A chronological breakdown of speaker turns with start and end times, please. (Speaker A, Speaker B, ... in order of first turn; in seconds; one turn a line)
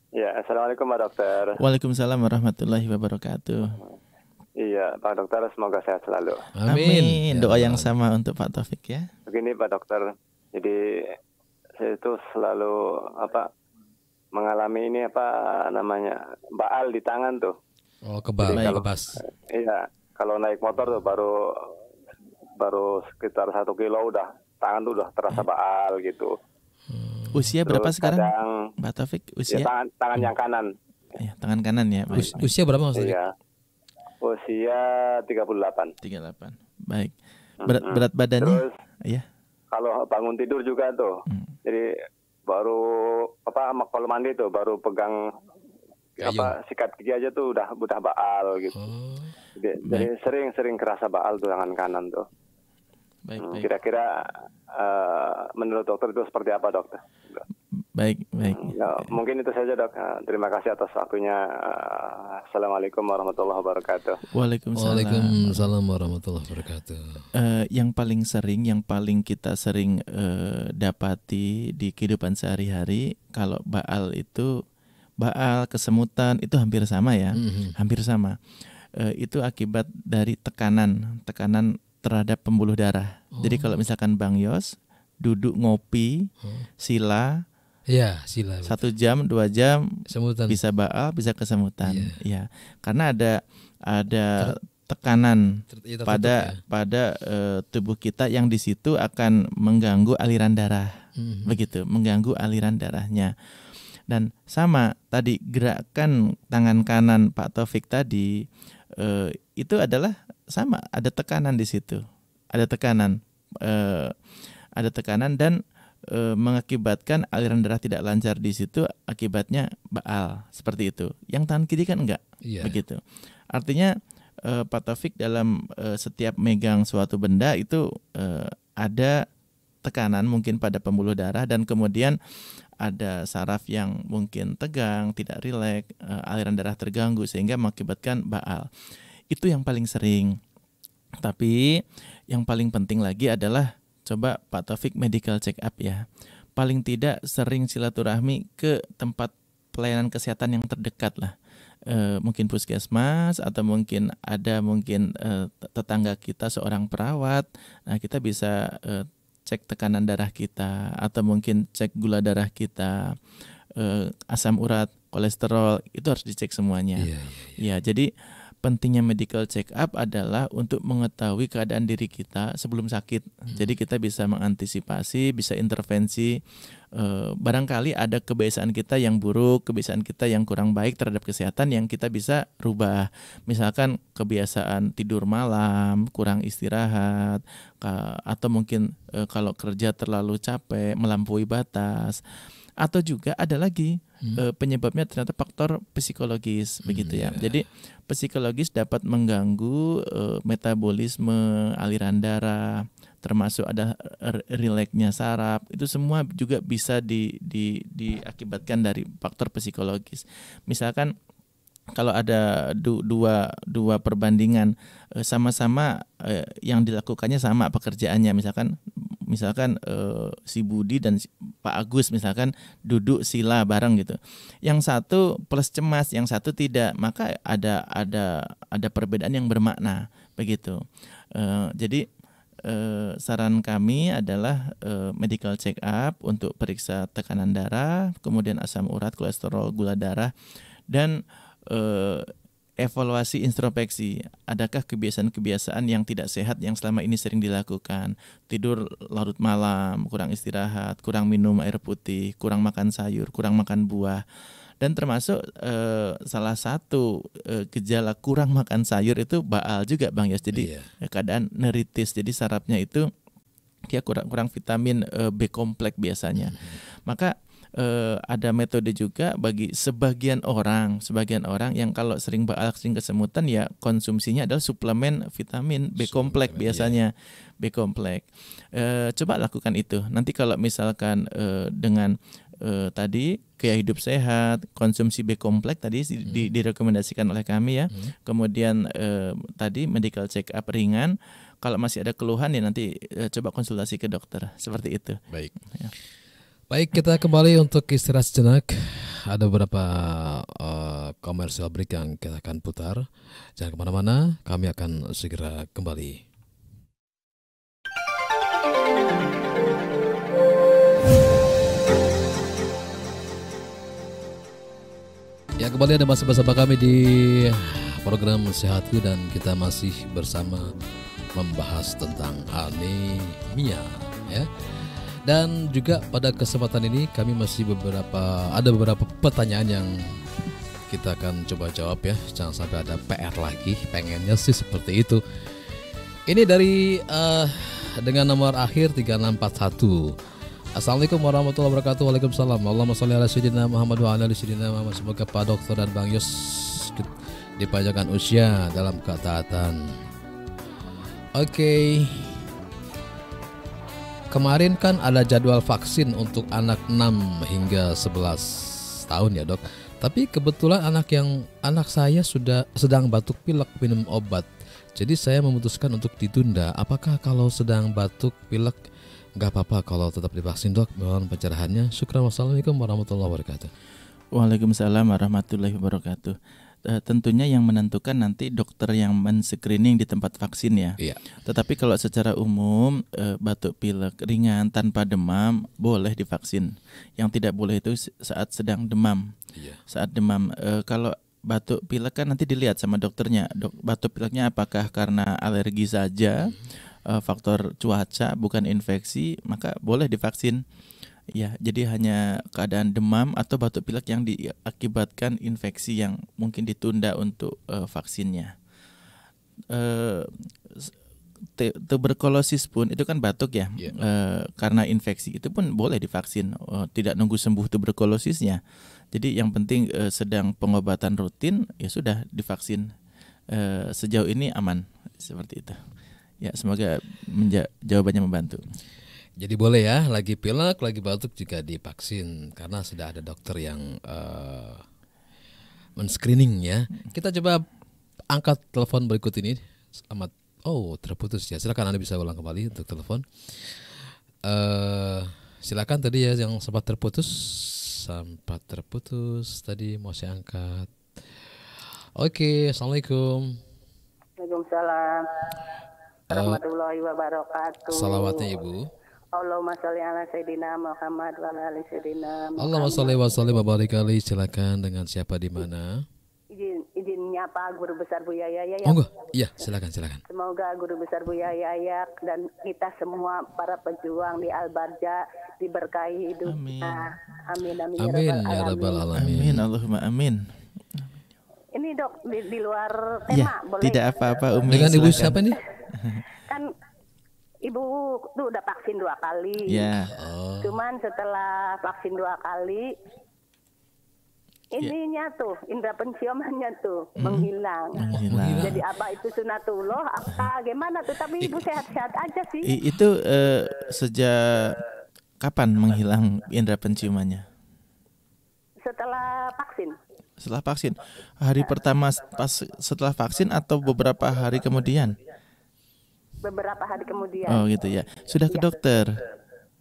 Speaker A: 0.1-1.6
Speaker B: 1.6-3.8
Speaker A: 4.6-6.5
Speaker C: 6.6-7.9
Speaker B: 6.7-9.1
Speaker A: 9.3-10.8
Speaker A: 11.8-13.5
Speaker A: 14.3-17.5
Speaker C: 18.1-19.2
Speaker A: 18.5-18.9
Speaker B: 18.5-18.8
Speaker A: 19.4-21.7
Speaker A: 22.6-26.3
Speaker C: 26.9-27.5
Speaker B: 27.3-28.3
Speaker A: 27.6-28.5
Speaker B: 28.8-29.7
Speaker A: 29.5-30.7
Speaker B: 31.2-32.5
Speaker A: 32.1-32.4
Speaker C: 32.1-33.2
Speaker A: 32.9-33.3
Speaker A: 34.2-35.9
Speaker B: 36.0-39.2
Speaker A: 37.6-38.7
Speaker A: 39.7-41.1
Speaker A: 41.6-41.9
Speaker A: 42.5-45.2
Speaker A: 46.2-48.8
Speaker C: 46.2-46.5
Speaker C: 48.7-49.3
Speaker A: 49.5-52.2
Speaker B: 53.2-53.7
Speaker A: 53.4-57.4
Speaker B: 57.9-59.1
Speaker A: 58.5-64.2
Speaker B: 64.3-65.6
Speaker C: 64.8-67.2
Speaker B: 67.3-74.5
Speaker B: 75.2-78.4
Speaker C: 77.3-77.8
Speaker B: 78.9-86.3
Speaker C: 83.4-83.8
Speaker B: 86.8-87.4
Speaker C: 87.9-88.8
Speaker B: 88.6-95.5
Speaker C: 90.1-90.6
Speaker C: 91.8-92.2
Speaker C: 95.7-96.6
Speaker B: 96.0-100.9
Speaker C: 101.2-101.5
Speaker B: 101.5-103.3
Speaker B: 104.1-108.4
Speaker B: 109.0-112.0
Speaker B: 112.5-114.2
Speaker B: 114.8-129.2
Speaker C: 122.4-122.8
Speaker B: 129.8-132.2
Speaker B: 132.8-138.7
Speaker B: 139.3-140.4
Speaker B: 141.2-146.0
Speaker B: 146.6-151.3
Speaker B: 151.9-163.2
Speaker B: 163.8-168.1
Speaker C: 167.0-167.6
Speaker B: 168.6-176.4
Speaker B: 176.9-192.2
Speaker B: 192.8-211.1
Speaker C: 196.8-197.6
Speaker B: 211.9-218.8
Speaker B: 219.3-230.8
Speaker B: 231.3-232.0
Speaker B: 232.6-240.3
Speaker B: 240.9-254.2
Speaker B: 254.8-263.1
Speaker C: 260.5-260.9
Speaker B: 263.9-295.2
Speaker C: 266.5-266.8
Speaker C: 276.0-277.0
Speaker C: 296.7-306.2
Speaker C: 315.6-320.7
Speaker C: 321.3-330.2
Speaker C: 330.9-335.2
Speaker C: 336.3-340.1
Speaker C: 340.8-350.0
Speaker C: 351.4-352.4
Speaker C: 354.3-368.8
Speaker C: 369.4-373.7
Speaker B: 374.3-389.3
Speaker C: 389.5-389.8
Speaker B: 389.9-400.6
Speaker B: 401.3-408.5
Speaker B: 409.7-410.9
Speaker B: 411.6-418.6
Speaker B: 419.1-422.9
Speaker B: 423.5-425.8
Speaker B: 426.4-428.6
Speaker C: 429.4-434.8
Speaker C: 436.0-437.6
Speaker C: 438.3-443.8
Speaker C: 444.4-450.9
Speaker C: 452.1-453.6
Speaker D: 454.4-455.6
Speaker C: 456.3-456.6
Speaker D: 456.3-458.4
Speaker C: 457.9-458.9
Speaker D: 459.3-463.4
Speaker C: 462.6-466.0
Speaker D: 466.5-469.1
Speaker C: 468.9-470.2
Speaker D: 470.3-479.0
Speaker B: 476.4-477.1
Speaker C: 478.0-479.6
Speaker B: 479.1-480.4
Speaker D: 481.7-485.4
Speaker B: 483.3-485.4
Speaker C: 484.7-485.6
Speaker B: 485.9-486.2
Speaker D: 487.6-489.9
Speaker B: 489.6-490.1
Speaker C: 490.1-490.7
Speaker D: 490.6-492.9
Speaker D: 494.7-498.1
Speaker B: 497.2-498.8
Speaker C: 498.1-498.8
Speaker D: 498.6-502.7
Speaker B: 502.6-504.8
Speaker B: 505.4-507.4
Speaker D: 508.8-509.9
Speaker B: 510.4-515.2
Speaker D: 516.4-517.6
Speaker B: 517.4-519.2